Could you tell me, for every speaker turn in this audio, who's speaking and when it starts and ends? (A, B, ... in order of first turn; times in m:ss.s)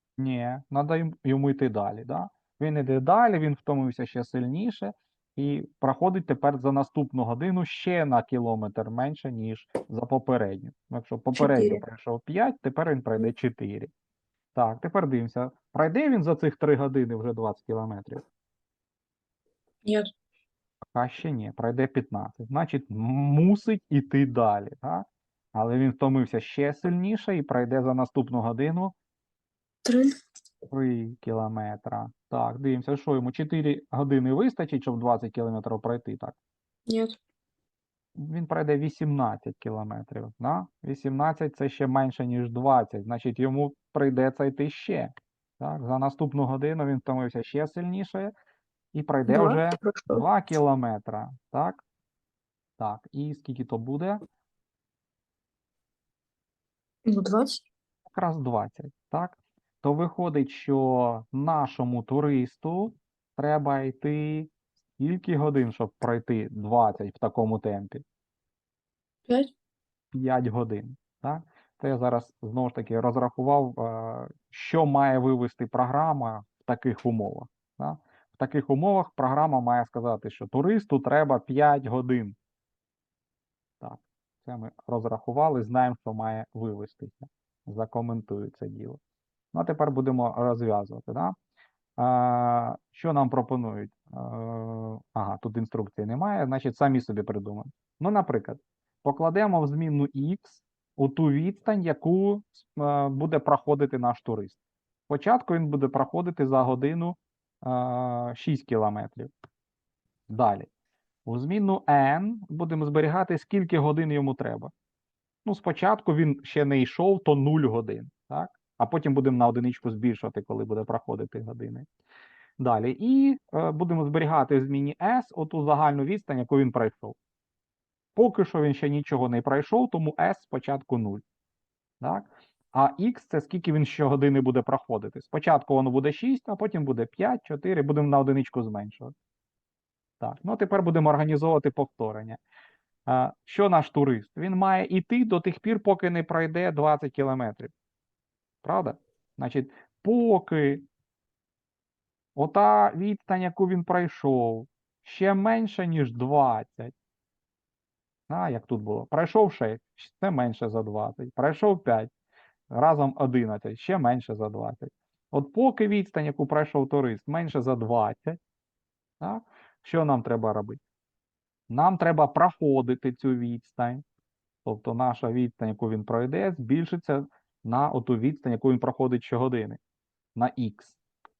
0:00.2-0:13.9 A
0:11.4-0:11.8 B
0:14.5-0:18.2 A
0:19.8-0:20.1 B
0:21.0-0:29.0 A
0:29.8-0:30.1 B
0:30.7-0:36.4 A
0:36.9-0:37.2 B
0:38.2-0:48.3 A
0:48.9-0:51.8 A
0:49.3-0:50.2 B
0:52.8-0:54.2 A
0:57.1-0:57.7 B
0:58.1-1:08.0 A
1:10.1-1:22.4 A
1:23.8-1:29.0 A
1:29.5-1:31.4 A
1:32.0-1:44.6 A
1:45.1-1:49.3 A
1:50.3-1:50.7 A
1:51.3-1:54.7 A
1:55.4-2:01.9 A
2:02.6-2:07.2 A
2:08.2-2:11.2 A
2:12.0-2:19.1 A
2:20.2-2:22.4 A
2:23.1-2:27.7 A
2:28.6-2:30.9 A
2:32.4-2:36.9 A
2:38.3-2:42.1 A
2:42.7-2:48.4 A
2:49.2-2:50.8 A
2:51.7-2:54.0 A
2:54.6-2:59.8 A
3:00.4-3:01.0 A